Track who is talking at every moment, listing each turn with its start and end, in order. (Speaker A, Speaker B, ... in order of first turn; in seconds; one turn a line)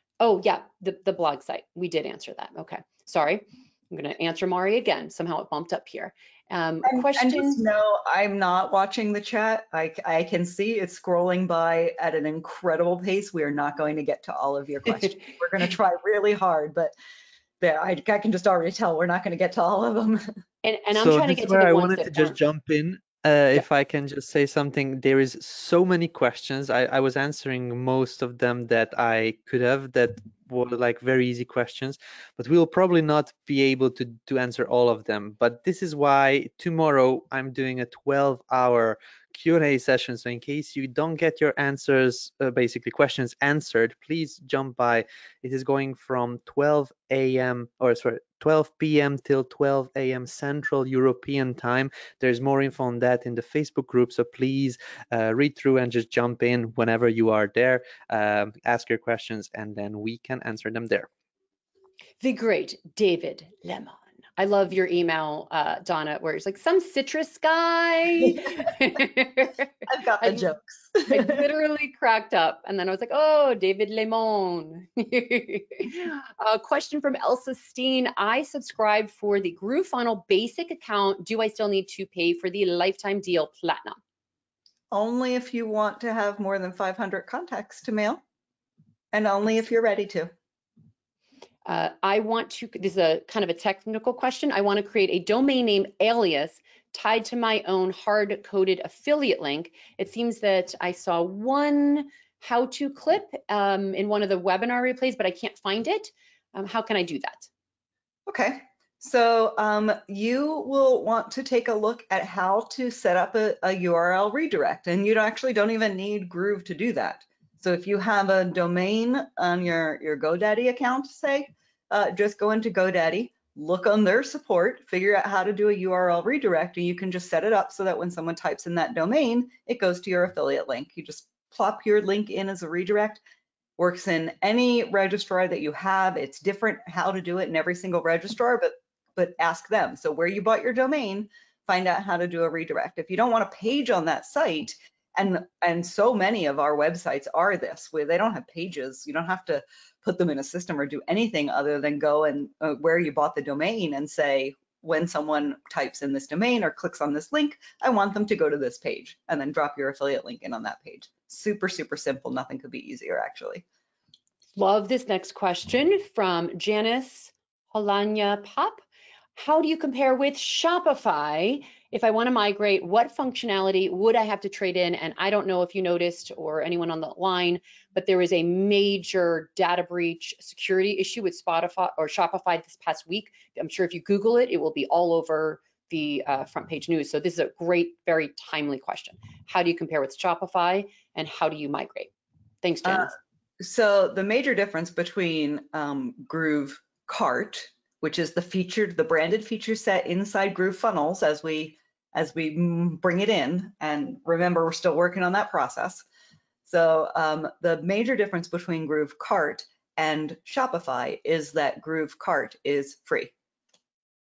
Speaker A: 0.2-7.6
Speaker B: 6.8-16.9
Speaker B: 17.6-20.2
Speaker A: 20.6-22.4
Speaker C: 20.9-61.1
Speaker A: 62.2-69.7
Speaker B: 68.4-68.7
Speaker B: 69.8-71.4
Speaker A: 71.1-84.0
Speaker B: 84.9-88.2
Speaker B: 89.1-90.3
Speaker A: 91.6-107.5
Speaker B: 108.3-133.2
Speaker B: 133.8-163.6
Speaker A: 164.6-168.8
Speaker A: 169.3-192.1
Speaker A: 192.6-193.1
Speaker B: 192.8-206.1
Speaker B: 206.7-213.3